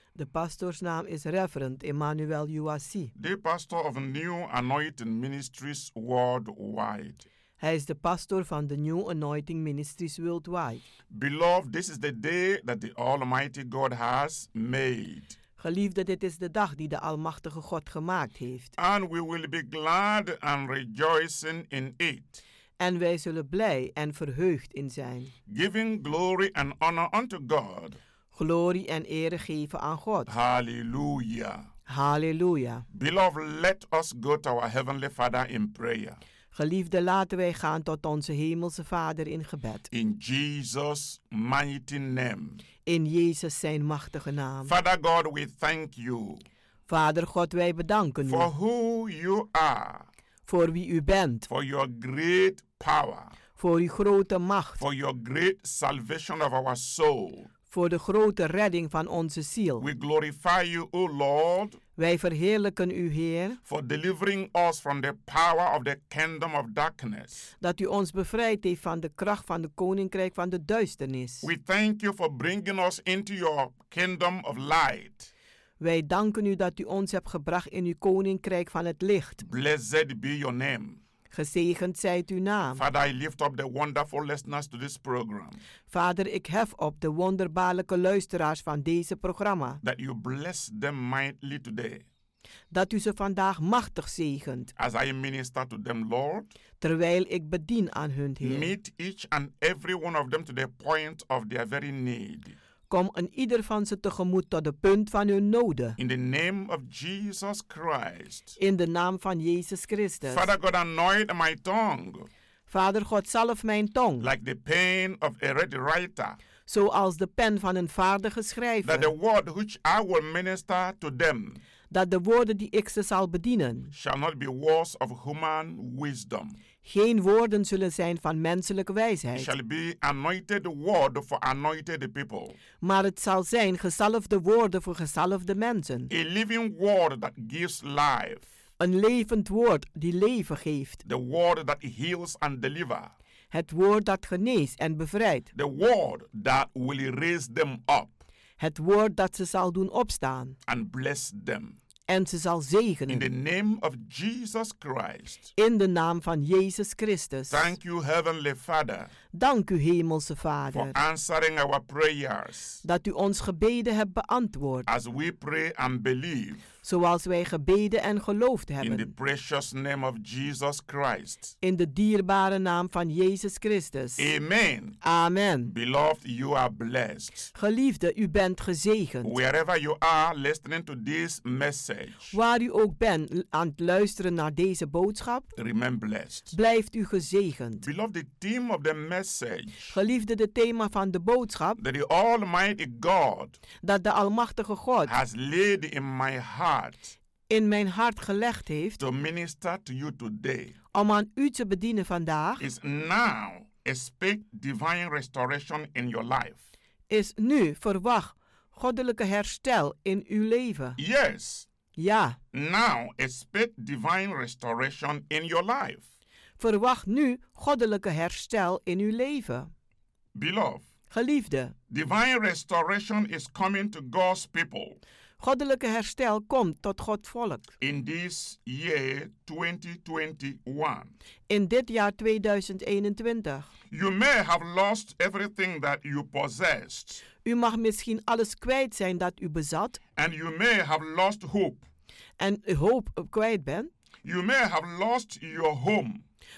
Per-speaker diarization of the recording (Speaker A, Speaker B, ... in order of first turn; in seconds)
Speaker A: 0.1-3.1, 7.6-10.8, 15.6-18.7, 22.8-25.3, 28.3-30.3, 31.9-32.9, 36.5-39.9, 42.9-44.7, 46.9-48.5, 50.5-51.5, 53.6-54.8, 57.7-59.9, 62.0-63.6, 67.6-71.5, 75.8-79.4, 81.3-82.8, 85.9-89.8, 92.7-94.7, 96.8-98.7, 102.9-106.0, 108.6-110.5, 112.7-114.3, 116.7-119.1, 121.9-123.9, 126.8-129.5, 132.8-136.1, 138.8-141.0, 143.5-145.5, 148.6-150.6, 152.1-153.3, 155.6-157.7, 159.3-160.9, 162.8-164.9, 166.8-169.1, 171.6-174.3, 175.0-175.7, 177.5-179.3, 182.3-185.5, 186.5-187.8, 189.9-191.8, 193.8-195.1, 197.5-199.0, 200.9-202.7, 207.1-211.0, 211.9-212.4, 216.6-219.7, 221.1-221.7, 225.4-227.7, 231.5-233.7, 237.4-240.0, 242.4-243.9
Speaker B: 3.1-7.2, 11.1-15.4, 18.8-22.4, 25.5-28.0, 30.3-31.7, 32.9-36.2, 39.9-42.6, 44.6-46.5, 48.2-50.1, 51.5-53.3, 54.8-57.5, 59.8-61.8, 63.7-67.5, 71.4-75.3, 79.4-81.0, 82.8-85.6, 89.8-92.0, 94.8-96.5, 98.4-102.5, 106.0-108.6, 110.3-112.3, 114.2-116.4, 118.8-121.6, 123.9-126.6, 129.3-132.6, 136.1-138.4, 141.0-143.1, 145.5-148.2, 150.7-151.8, 153.1-155.5, 157.5-159.1, 160.7-162.8, 164.9-166.6, 168.8-171.5, 174.2-175.0, 175.7-177.5, 179.2-182.3, 185.6-186.5, 187.8-189.9, 191.8-193.6, 195.1-197.1, 199.0-200.8, 202.6-206.6, 211.0-211.7, 212.5-216.0, 220.3-220.8, 221.9-225.0, 227.8-231.1, 233.9-237.2, 240.2-241.8, 244.2-246.2